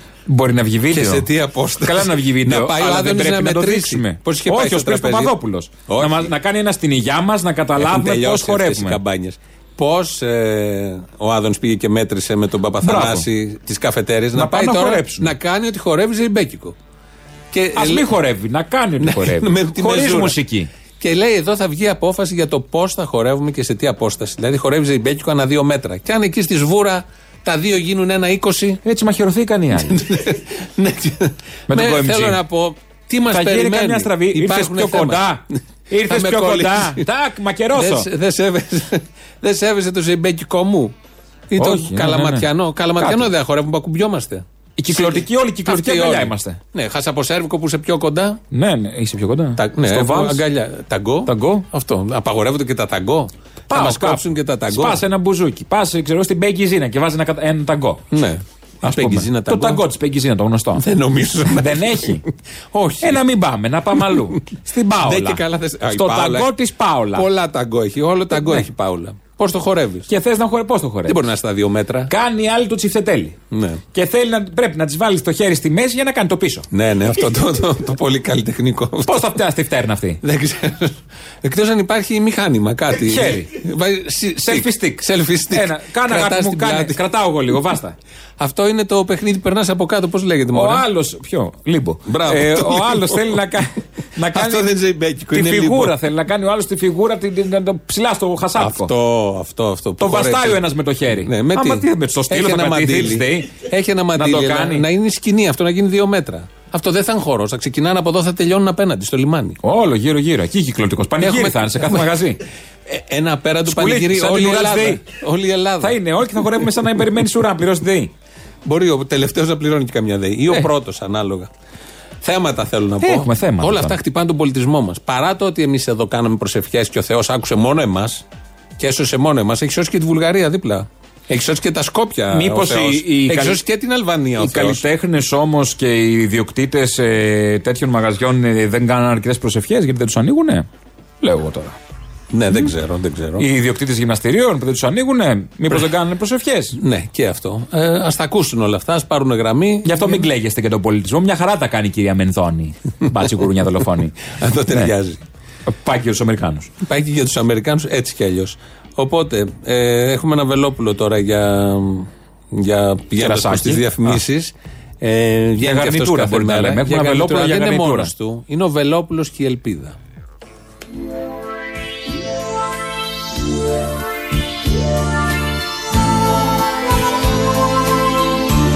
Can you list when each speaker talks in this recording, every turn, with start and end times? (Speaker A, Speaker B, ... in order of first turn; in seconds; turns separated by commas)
Speaker A: 0.2-9.0, Speaker B: 0.9-5.3, Speaker B: 5.9-6.3, Speaker B: 7.8-16.8, Speaker A: 12.8-13.3, Speaker A: 14.3-15.3, Speaker B: 17.5-18.1, Speaker A: 17.7-20.7, Speaker B: 19.0-20.4, Speaker B: 21.0-28.8, Speaker A: 28.8-30.0, Speaker B: 29.8-37.1, Speaker A: 31.7-32.4, Speaker A: 33.3-38.1, Speaker B: 37.7-40.9, Speaker B: 41.5-48.4, Speaker A: 41.6-43.3, Speaker A: 44.8-46.6, Speaker A: 48.5-50.4, Speaker B: 49.6-55.0, Speaker A: 51.2-51.6, Speaker A: 53.7-58.1, Speaker B: 58.1-59.8, Speaker A: 58.8-60.8, Speaker B: 60.7-63.2, Speaker A: 61.5-62.2, Speaker A: 63.0-67.3, Speaker B: 65.0-66.5, Speaker B: 67.1-70.1, Speaker A: 68.3-68.6, Speaker A: 70.1-71.2, Speaker B: 71.0-72.1, Speaker A: 72.1-73.4, Speaker B: 73.5-73.8, Speaker A: 73.9-76.7, Speaker B: 76.7-79.3, Speaker A: 79.0-80.2, Speaker B: 80.2-87.0, Speaker A: 82.9-83.5, Speaker A: 84.4-88.0, Speaker B: 88.4-90.8, Speaker A: 90.5-94.7, Speaker B: 92.0-93.4, Speaker B: 94.3-96.0, Speaker A: 95.3-98.9, Speaker B: 98.6-100.6, Speaker A: 100.0-104.9, Speaker B: 101.2-109.6, Speaker A: 109.6-112.4, Speaker B: 111.2-112.1, Speaker B: 112.9-116.0, Speaker A: 113.6-115.0, Speaker A: 115.8-118.1, Speaker B: 118.6-121.5, Speaker B: 122.2-128.2, Speaker A: 123.0-124.0, Speaker B: 128.8-134.8, Speaker A: 132.3-133.6, Speaker A: 134.4-140.7, Speaker A: 141.2-141.8, Speaker B: 142.3-143.5, Speaker A: 143.4-146.8, Speaker B: 146.7-150.2, Speaker A: 149.8-154.1, Speaker B: 154.2-155.2, Speaker A: 155.7-156.7, Speaker B: 156.8-170.0, Speaker A: 163.2-164.2, Speaker A: 165.6-168.1